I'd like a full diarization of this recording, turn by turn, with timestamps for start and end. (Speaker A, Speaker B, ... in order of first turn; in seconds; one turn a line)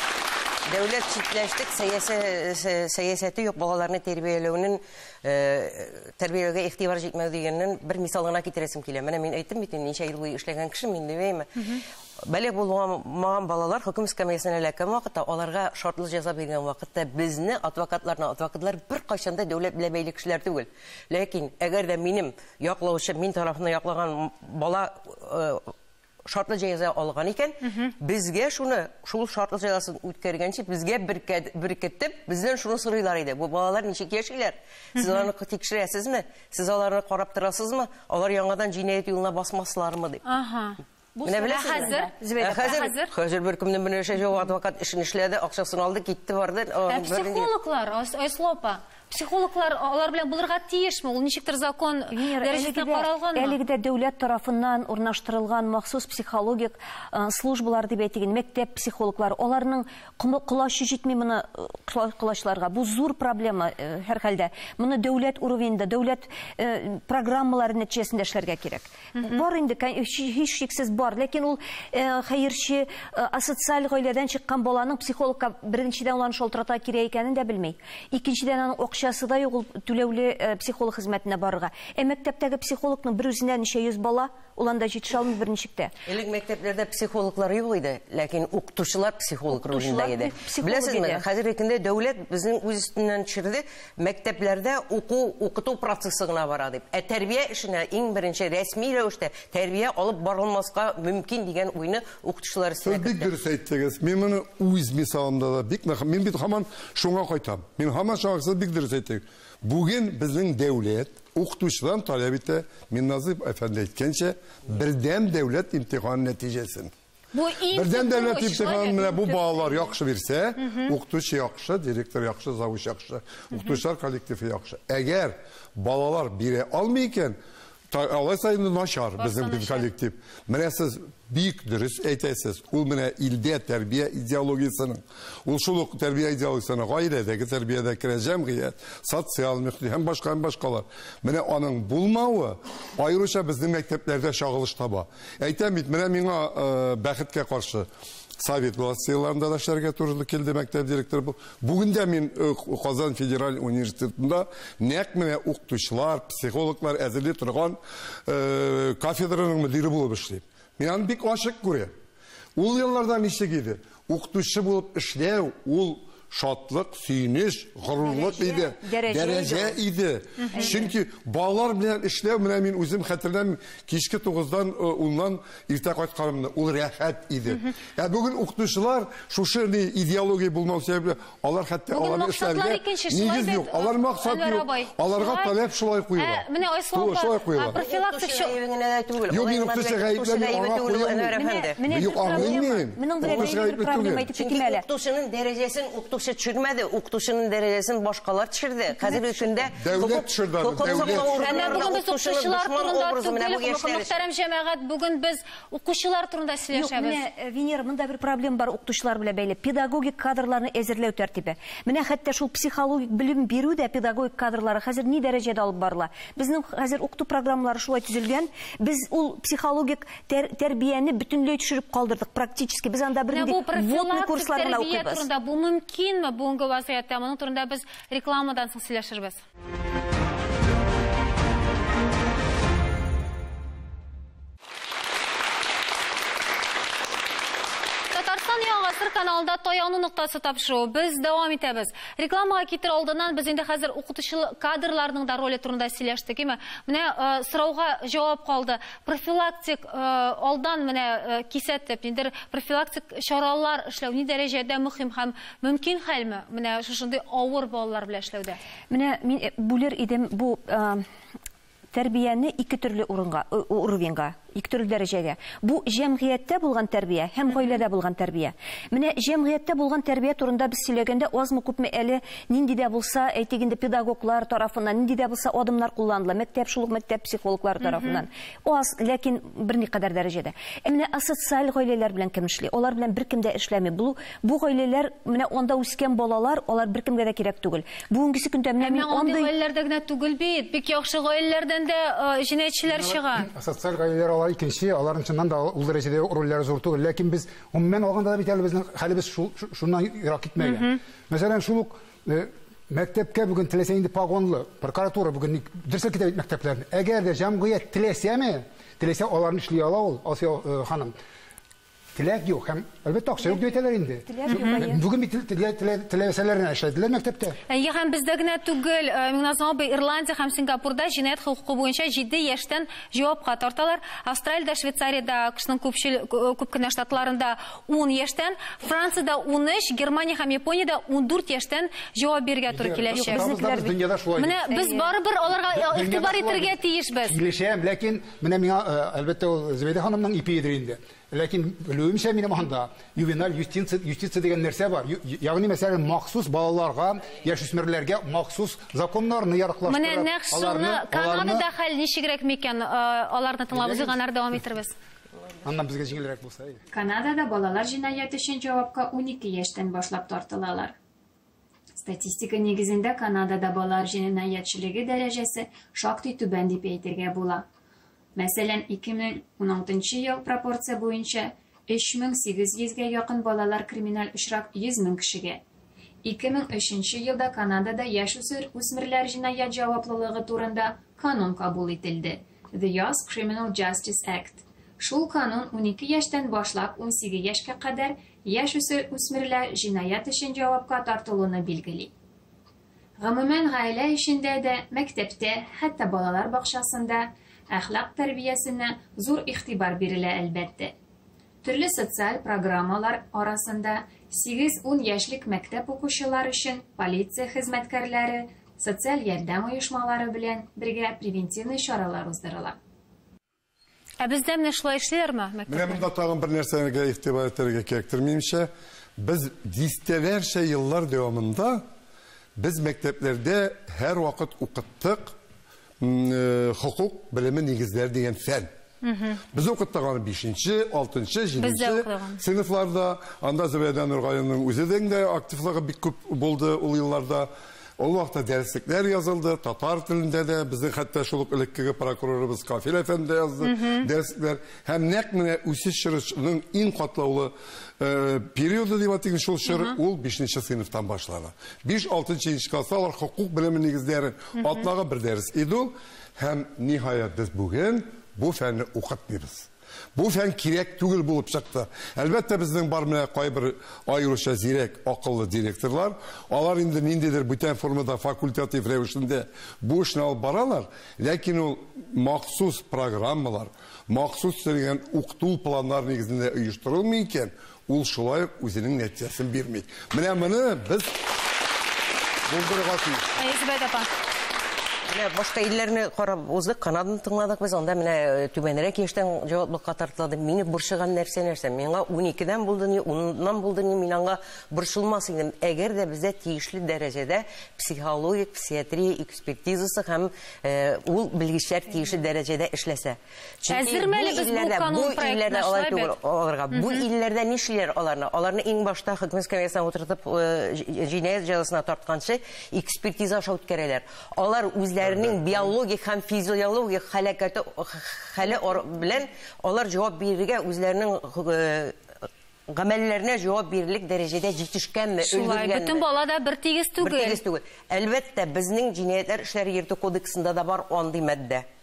Speaker A: 0.7-25.7
Speaker A: 26.3-40.2
Speaker B: 35.0-35.2
Speaker B: 40.2-43.1
Speaker A: 41.2-47.5
Speaker C: 41.3-42.8
Speaker B: 46.9-53.6
Speaker C: 52.1-85.9
Speaker B: 69.2-69.4
Speaker A: 86.1-103.3
Speaker C: 89.5-91.2
Speaker D: 102.8-116.9
Speaker B: 117.3-119.9
Speaker D: 117.7-127.4
Speaker B: 120.7-120.9
Speaker D: 127.9-147.9
Speaker B: 129.2-129.9
Speaker D: 148.4-161.9
Speaker D: 162.6-187.8
Speaker C: 168.0-169.8
Speaker C: 170.5-170.9
Speaker B: 181.9-185.6
Speaker B: 186.2-188.5
Speaker A: 187.8-191.8
Speaker D: 189.3-194.3
Speaker C: 191.3-194.8
Speaker A: 193.2-193.6
Speaker A: 194.3-204.2
Speaker C: 199.0-199.5
Speaker D: 199.7-201.6
Speaker B: 201.1-207.2
Speaker C: 206.7-225.3
Speaker B: 223.3-229.4
Speaker B: 238.1-258.6
Speaker C: 258.9-261.1
Speaker C: 261.9-289.5
Speaker B: 277.8-278.2
Speaker B: 288.8-293.5
Speaker E: 292.9-311.1
Speaker B: 300.6-300.9
Speaker E: 312.1-317.6
Speaker C: 313.4-313.7
Speaker C: 314.3-315.1
Speaker B: 314.5-314.9
Speaker B: 317.7-337.4
Speaker E: 332.7-334.6
Speaker C: 333.2-334.0
Speaker C: 334.7-335.1
Speaker E: 335.7-351.7
Speaker B: 349.9-354.9
Speaker E: 353.7-354.2
Speaker E: 355.6-356.8
Speaker F: 356.9-361.0
Speaker F: 361.9-367.6
Speaker F: 368.4-375.6
Speaker F: 376.2-392.1
Speaker F: 393.2-400.9
Speaker F: 401.6-412.8
Speaker B: 414.2-416.1
Speaker D: 415.7-421.9
Speaker D: 422.6-425.3
Speaker D: 426.0-428.7
Speaker B: 429.0-429.4
Speaker D: 429.5-481.3
Speaker B: 431.6-432.4
Speaker B: 443.6-444.1
Speaker B: 449.7-450.0
Speaker D: 482.5-483.3
Speaker B: 483.4-484.1
Speaker A: 485.1-522.0
Speaker B: 503.7-506.1
Speaker B: 506.7-507.0
Speaker D: 515.0-515.6
Speaker A: 522.7-526.1
Speaker B: 525.2-527.4
Speaker A: 527.0-531.7